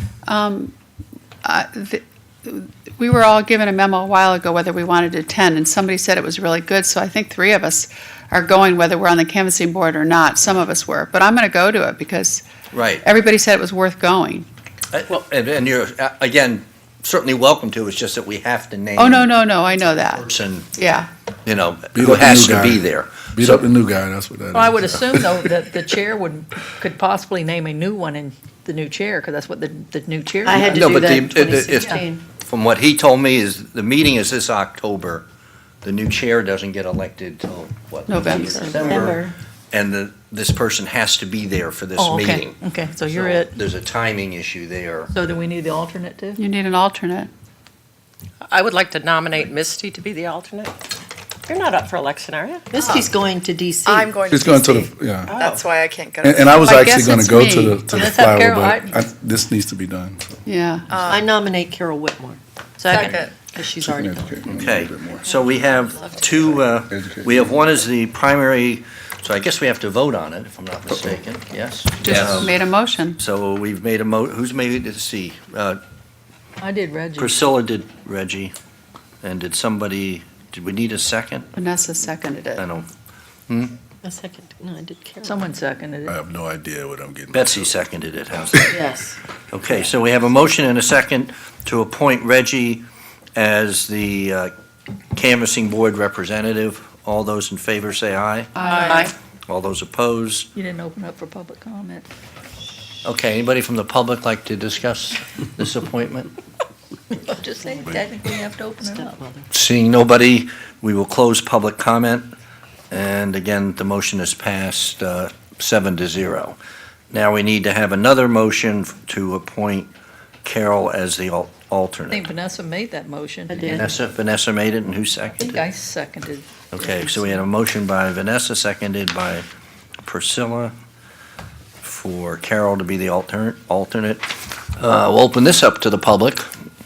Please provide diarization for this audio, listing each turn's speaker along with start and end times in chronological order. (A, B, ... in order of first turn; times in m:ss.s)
0:00.3-0:00.7 A
0:01.4-0:12.5 A
0:12.7-0:13.0 B
0:13.0-0:14.5 A
0:14.9-0:19.3 B
0:19.0-0:21.1 A
0:20.2-0:20.7 B
0:21.5-0:23.7 B
0:21.9-0:25.4 C
0:24.5-0:31.2 D
0:30.4-0:32.2 E
0:30.6-0:35.3 B
0:35.8-0:45.1 B
0:38.1-0:39.1 A
0:38.3-0:39.3 E
0:42.0-0:43.5 D
0:45.1-0:46.4 D
0:46.4-0:47.3 A
0:48.5-0:50.7 F
0:51.5-0:52.8 F
0:52.7-0:54.1 E
0:53.9-0:54.9 G
0:54.3-0:55.4 C
0:55.3-0:56.0 F
0:55.4-0:56.5 G
0:56.2-1:00.4 C
0:56.4-0:57.8 A
0:57.9-0:59.0 D
1:00.5-1:01.2 A
1:01.1-1:04.5 E
1:02.9-1:03.2 D
1:03.8-1:05.3 C
1:04.5-1:12.5 B
1:06.5-1:07.5 C
1:12.0-1:13.2 A
1:13.2-1:15.8 B
1:16.6-1:17.4 D
1:17.2-1:18.5 B
1:19.2-1:21.5 B
1:21.6-1:22.6 A
1:22.6-1:22.9 B
1:23.5-1:23.7 B
1:24.0-1:25.4 E
1:25.2-1:26.2 D
1:26.1-1:27.7 C
1:27.3-1:28.8 B
1:28.7-1:29.2 E
1:29.5-1:32.8 B
1:33.4-1:34.5 B
1:35.1-1:38.6 B
1:38.6-1:39.1 A
1:38.7-1:39.1 F
1:39.5-1:40.5 B
1:40.6-1:42.1 D
1:43.0-1:46.3 B
1:47.2-1:49.2 D
1:48.8-1:49.5 E
1:49.5-1:52.3 B
1:52.9-1:56.6 B
1:57.1-1:59.9 B
2:00.4-2:02.3 B
2:02.1-2:03.9 D
2:03.5-2:03.9 E
2:03.6-2:05.6 B
2:05.4-2:07.4 D
2:06.7-2:09.4 B
2:10.0-2:10.7 B
2:11.8-2:14.3 B
2:14.8-2:16.5 B